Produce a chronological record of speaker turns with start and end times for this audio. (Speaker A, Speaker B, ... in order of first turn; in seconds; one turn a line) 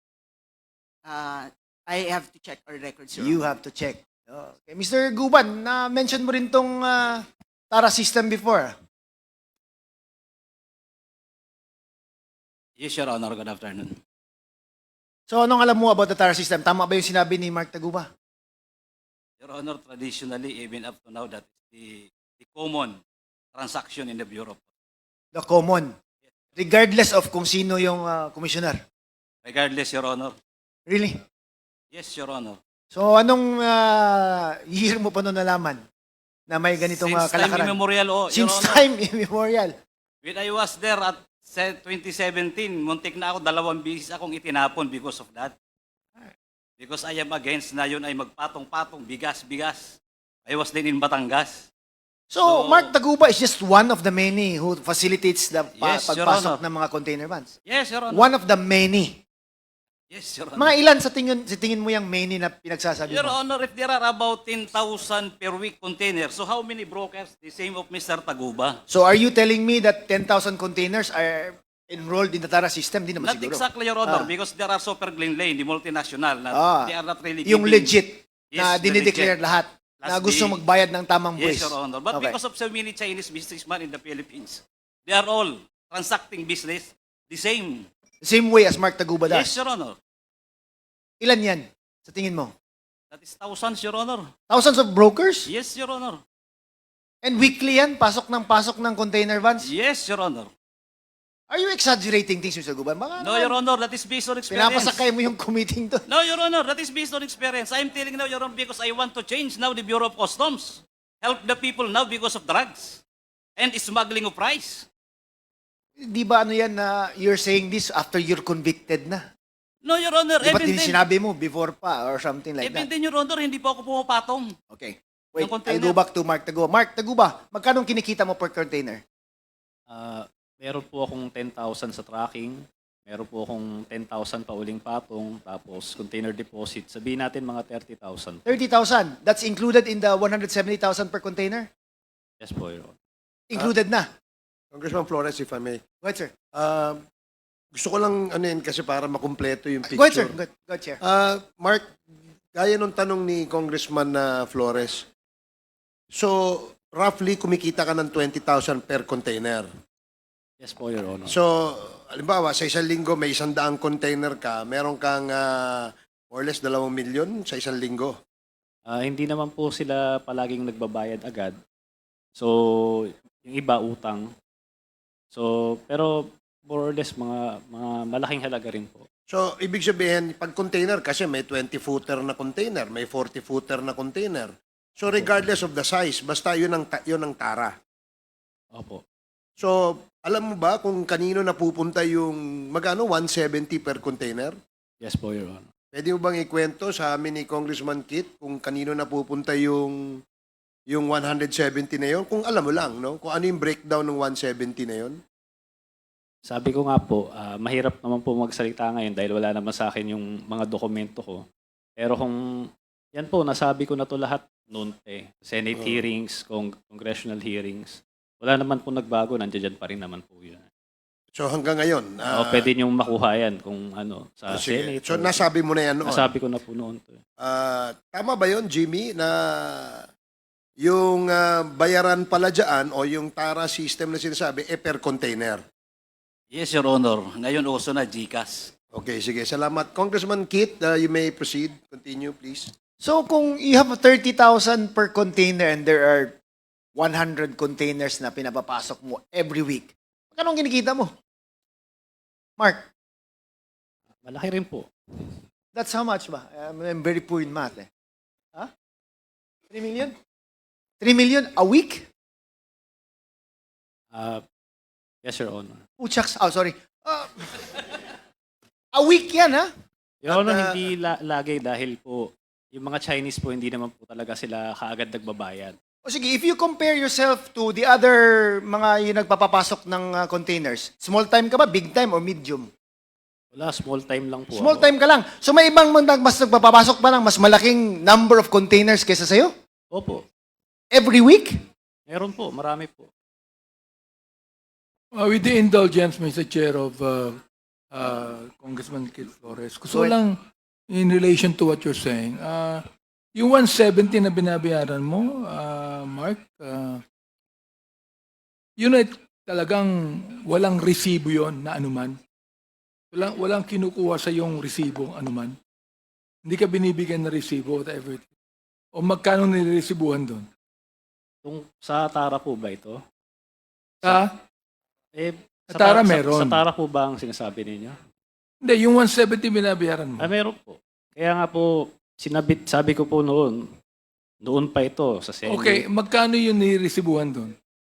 Speaker A: 1.0-3.5
Speaker B: 3.2-8.7
Speaker C: 12.8-14.0
Speaker B: 15.3-18.1
Speaker C: 19.4-23.0
Speaker C: 23.5-24.6
Speaker B: 25.3-25.9
Speaker B: 26.6-28.8
Speaker C: 29.4-30.4
Speaker B: 30.9-31.2
Speaker C: 31.9-32.6
Speaker B: 32.9-35.8
Speaker B: 36.5-37.8
Speaker C: 36.8-38.9
Speaker B: 38.3-39.7
Speaker C: 40.2-45.5
Speaker C: 46.8-51.7
Speaker B: 52.3-57.5
Speaker C: 52.4-52.9
Speaker C: 55.7-56.6
Speaker C: 57.6-58.3
Speaker B: 58.1-59.2
Speaker C: 60.1-60.8
Speaker B: 60.6-63.3
Speaker C: 63.0-68.8
Speaker B: 68.9-74.3
Speaker C: 73.2-78.0
Speaker B: 76.5-76.9
Speaker B: 77.4-82.3
Speaker C: 78.5-79.4
Speaker C: 80.0-80.6
Speaker C: 81.3-87.9
Speaker B: 88.2-89.5
Speaker C: 89.2-90.0
Speaker B: 91.2-92.5
Speaker C: 93.1-94.3
Speaker B: 94.5-95.5
Speaker C: 95.4-96.2
Speaker B: 97.2-99.7
Speaker C: 99.6-100.5
Speaker B: 101.5-103.5
Speaker C: 103.2-105.1
Speaker B: 104.5-106.0
Speaker C: 106.0-113.0
Speaker C: 113.6-114.9
Speaker B: 116.0-119.2
Speaker C: 119.8-121.0
Speaker B: 120.4-122.8
Speaker C: 122.6-124.5
Speaker B: 124.7-129.0
Speaker C: 125.3-126.0
Speaker D: 129.9-138.4
Speaker B: 138.4-141.7
Speaker D: 142.4-142.9
Speaker B: 143.5-144.1
Speaker E: 144.7-145.8
Speaker B: 146.0-146.3
Speaker E: 146.5-147.0
Speaker E: 147.7-150.3
Speaker B: 149.9-151.0
Speaker E: 151.0-152.0
Speaker E: 152.5-155.1
Speaker E: 156.1-159.7
Speaker D: 160.6-161.4
Speaker E: 161.3-168.2
Speaker D: 168.9-171.6
Speaker D: 172.4-174.3
Speaker D: 175.3-179.1
Speaker E: 179.3-187.7
Speaker D: 188.7-189.0
Speaker E: 189.6-194.6
Speaker D: 195.0-195.7
Speaker E: 195.9-199.9
Speaker E: 200.9-205.2
Speaker D: 206.5-211.4
Speaker D: 212.0-212.4
Speaker D: 213.2-220.7
Speaker E: 215.7-216.0
Speaker E: 221.3-222.7
Speaker D: 222.3-227.2
Speaker E: 224.5-226.3
Speaker E: 227.4-230.1
Speaker E: 230.8-235.6
Speaker C: 236.5-238.7
Speaker E: 238.9-242.7
Speaker B: 243.0-246.3
Speaker B: 246.9-251.1
Speaker B: 252.6-252.9
Speaker D: 254.2-254.9
Speaker B: 255.7-257.9
Speaker B: 259.7-260.1
Speaker B: 261.0-262.1
Speaker D: 264.1-264.4
Speaker D: 265.2-265.8
Speaker B: 266.0-268.0
Speaker B: 268.9-269.7
Speaker D: 270.2-275.8
Speaker B: 270.3-270.9
Speaker B: 276.0-282.7
Speaker D: 283.5-284.9
Speaker B: 284.5-289.5
Speaker D: 289.9-290.2
Speaker B: 290.9-291.5
Speaker D: 292.1-293.1
Speaker F: 295.1-297.4
Speaker F: 297.9-300.3
Speaker F: 300.9-302.8
Speaker F: 303.4-307.0
Speaker F: 308.8-312.2
Speaker F: 313.1-315.6
Speaker F: 316.4-318.3
Speaker F: 318.9-320.4
Speaker D: 321.4-323.0
Speaker F: 324.0-324.3
Speaker D: 325.1-327.9
Speaker F: 325.7-326.6
Speaker F: 328.6-330.3
Speaker D: 330.2-333.6
Speaker D: 334.4-335.8
Speaker F: 335.4-337.5